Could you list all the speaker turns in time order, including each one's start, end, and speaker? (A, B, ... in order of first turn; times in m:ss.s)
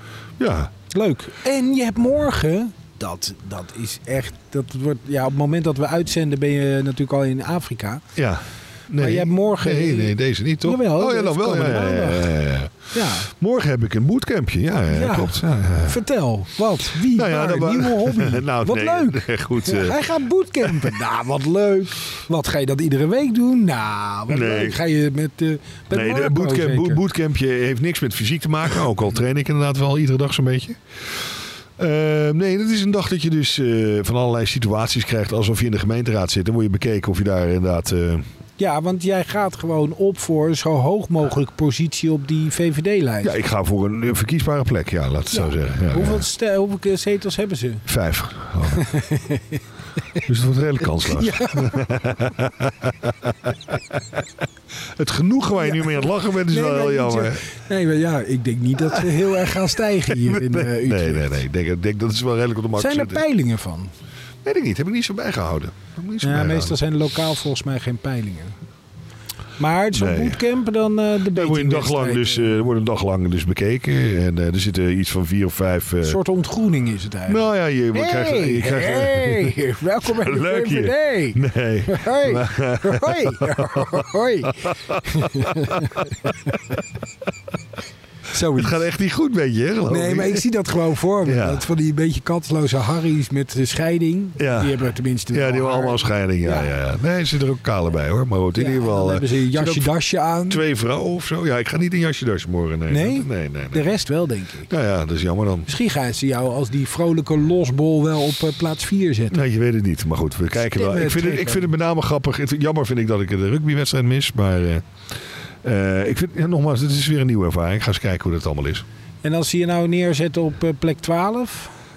0:00.4-0:00.7 A
0:00.9-0:08.0 B
0:08.2-0:12.7 A
0:09.0-0:12.3 B
0:12.9-0:13.3 B
0:13.2-0:16.0 A
0:14.9-0:27.0 B
0:17.0-0:20.0 A
0:20.6-0:20.9 A
0:24.3-0:24.8 A
0:25.9-0:38.2 A
0:38.6-0:43.4 B
0:43.2-0:46.2 A
0:45.3-0:47.8 B
0:47.9-0:48.9 A
0:48.7-0:49.6 B
0:50.2-0:54.2 A
0:50.8-0:51.9 B
0:55.0-0:57.4 A
0:55.6-1:01.3 B
0:58.8-1:03.2 A
1:02.8-1:03.9 B
1:04.4-1:06.8 A
1:06.2-1:08.6 B
1:09.6-1:12.5 B
1:09.9-1:10.4 A
1:11.3-1:16.2 A
1:16.0-1:26.6 B
1:17.3-1:26.8 A
1:28.3-1:28.8 B
1:28.5-1:30.5 A
1:29.9-1:36.7 B
1:31.2-1:31.7 A
1:34.4-1:34.8 A
1:35.3-1:39.9 A
1:38.6-1:40.6 B
1:40.5-1:43.9 A
1:42.9-1:44.7 B
1:44.7-1:45.7 A
1:45.7-1:49.4 B
1:49.3-1:54.8 A
1:50.5-1:51.7 B
1:55.6-1:58.8 A
1:59.2-2:01.7 B